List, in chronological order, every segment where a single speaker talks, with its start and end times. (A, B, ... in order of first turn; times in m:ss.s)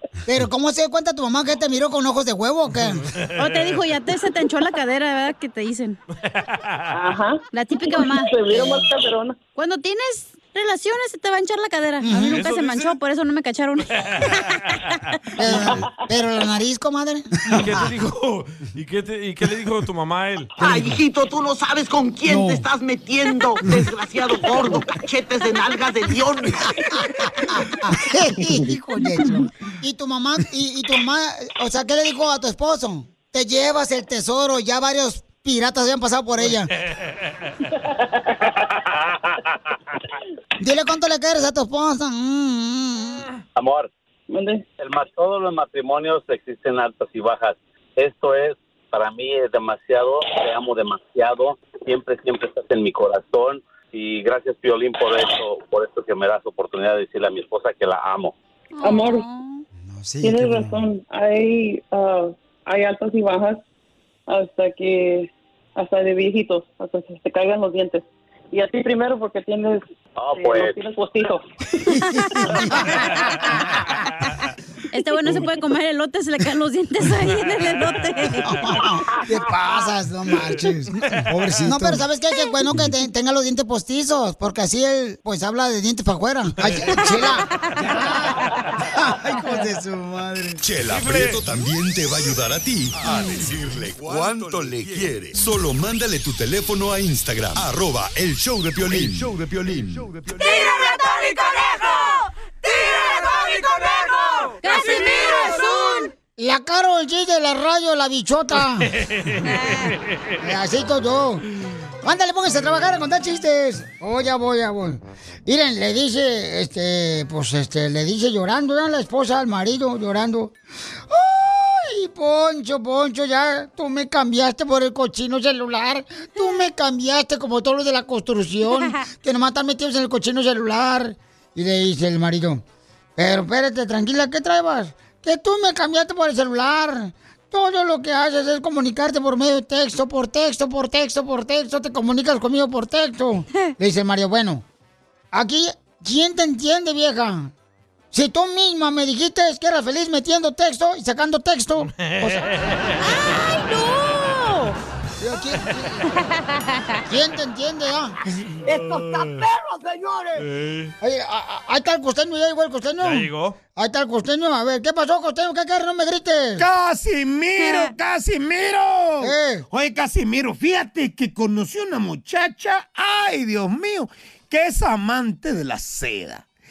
0:00.3-0:03.0 A
0:02.8-0:03.8 B
0:03.4-0:06.0 C
0:06.2-0:06.8 B
0:06.9-0:09.4 D
0:07.5-0:08.4 C
0:09.6-0:13.9 C
0:12.0-0:12.4 A
0:12.1-0:13.0 B
0:14.0-0:15.0 B
0:15.4-0:17.9 A
0:15.6-0:15.9 D
0:17.5-0:20.5 B
0:20.6-0:21.0 A
0:20.6-0:26.7 E
0:22.3-0:22.7 A
0:26.9-0:36.7 A
0:36.5-0:37.5 B
0:40.6-0:43.3 A
0:43.6-0:43.9 F
0:44.3-0:44.6 D
0:44.8-0:58.3 F
0:58.7-0:59.6 C
0:58.8-0:59.2 D
0:59.9-1:00.8 A
1:00.2-1:03.6 D
1:04.3-1:11.4 D
1:10.2-1:10.8 F
1:11.9-1:13.7 A
1:14.9-1:18.8 C
1:18.5-1:30.6 A
1:21.1-1:21.8 B
1:26.6-1:27.3 B
1:30.6-1:40.4 G
1:30.9-1:31.4 B
1:40.4-1:42.1 E
1:42.6-1:45.5 E
1:44.6-1:46.1 C
1:46.4-1:48.9 A
1:48.8-1:50.4 B
1:49.4-1:50.0 C
1:50.4-1:51.4 A
1:52.0-2:00.6 A
2:01.1-2:12.6 A
2:13.2-2:24.6 A
2:25.3-2:27.5 A
2:28.1-2:32.5 A
2:31.9-2:34.3 B
2:33.0-2:34.7 C
2:35.2-2:36.2 A
2:37.0-2:38.2 A
2:38.7-2:39.5 B
2:40.4-2:40.9 B
2:41.0-2:46.7 A
2:43.0-2:43.6 B
2:46.6-2:56.4 H
2:47.6-2:47.9 C
2:49.2-2:49.6 A